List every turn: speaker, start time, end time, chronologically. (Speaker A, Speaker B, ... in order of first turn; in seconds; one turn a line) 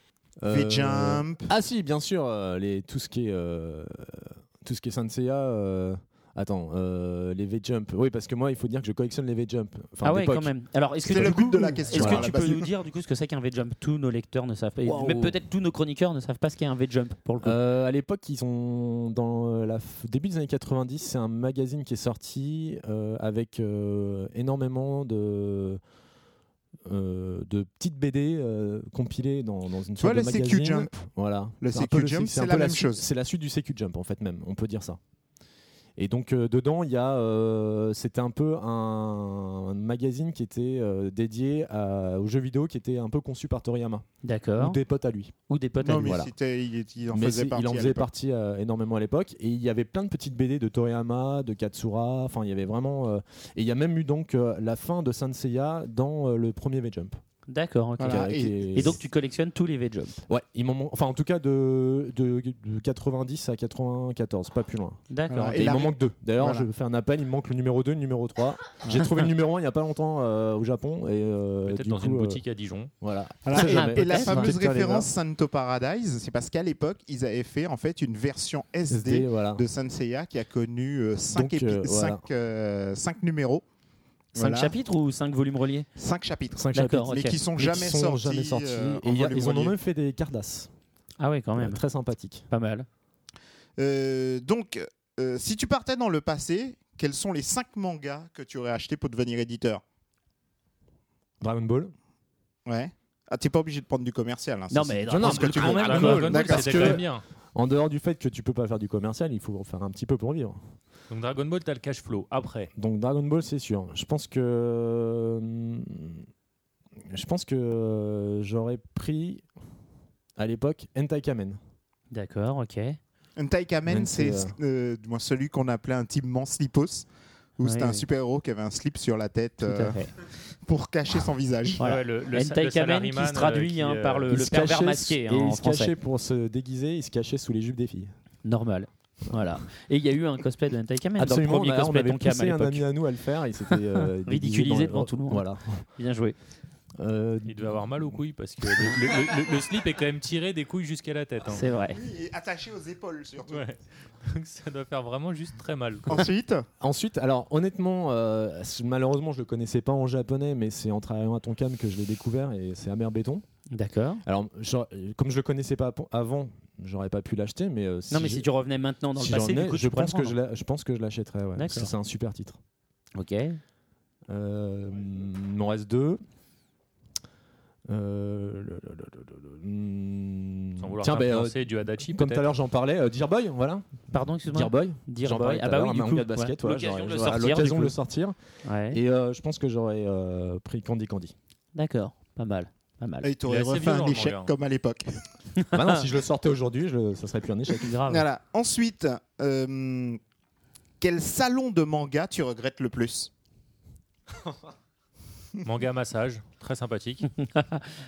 Speaker A: 0.4-10.5
Speaker B: 0.5-1.5
Speaker C: 10.0-17.6
Speaker A: 11.1-12.4
Speaker B: 11.1-12.7
Speaker A: 14.8-15.3
Speaker A: 17.4-25.8
Speaker A: 26.9-35.0
Speaker B: 30.0-30.9
Speaker B: 31.6-33.1
Speaker A: 36.0-44.0
Speaker C: 44.2-44.8
Speaker A: 44.6-45.3
Speaker C: 45.5-46.2
Speaker B: 45.8-48.1
Speaker A: 45.9-46.3
Speaker A: 47.1-57.2
Speaker C: 57.5-60.2
Speaker B: 58.0-58.9
Speaker A: 58.0-59.0
Speaker A: 60.3-72.4
Speaker C: 65.1-65.7
Speaker B: 65.5-66.7
Speaker D: 71.7-72.9
Speaker A: 73.0-75.1
Speaker B: 73.4-83.6
Speaker C: 73.5-74.6
Speaker A: 78.9-79.6
Speaker A: 81.3-82.2
Speaker B: 84.3-84.7
Speaker C: 84.3-85.9
Speaker B: 85.9-89.8
Speaker A: 86.6-90.7
Speaker C: 86.7-87.4
Speaker C: 91.2-91.8
Speaker A: 91.5-92.4
Speaker C: 92.5-92.9
Speaker B: 93.8-99.8
Speaker A: 101.4-101.9
Speaker B: 102.7-107.0
Speaker C: 104.7-106.3
Speaker A: 105.1-110.6
Speaker D: 105.7-107.2
Speaker D: 111.1-112.7
Speaker A: 112.8-116.2
Speaker A: 117.1-119.4
Speaker A: 120.4-121.6
Speaker C: 122.1-123.0
Speaker B: 123.4-130.0
Speaker A: 123.9-124.5
Speaker C: 127.6-128.0
Speaker C: 129.6-130.1
Speaker B: 130.6-131.8
Speaker D: 131.8-134.3
Speaker C: 131.8-135.9
Speaker A: 134.3-138.1
Speaker C: 138.4-142.8
Speaker A: 141.2-145.8
Speaker C: 144.2-145.4
Speaker C: 146.0-146.3
Speaker A: 147.0-148.2
Speaker D: 147.5-151.6
Speaker C: 151.5-152.0
Speaker B: 151.9-153.6
Speaker D: 153.5-156.3
Speaker B: 156.1-156.7
Speaker A: 156.8-163.4
Speaker C: 163.7-164.2
Speaker A: 164.2-168.4
Speaker C: 168.1-170.3
Speaker A: 169.2-172.6
Speaker C: 171.6-171.9
Speaker C: 173.1-173.6
Speaker A: 174.3-176.2
Speaker A: 177.9-183.8
Speaker D: 180.8-182.5
Speaker C: 184.1-187.9
Speaker A: 184.5-188.3
Speaker C: 188.6-189.0
Speaker A: 188.9-191.3
Speaker C: 191.7-193.3
Speaker B: 193.2-195.2
Speaker D: 193.5-194.5
Speaker A: 195.7-197.9
Speaker C: 197.8-198.2
Speaker B: 198.1-200.2
Speaker B: 201.0-203.3
Speaker D: 205.6-207.3
Speaker C: 207.4-207.8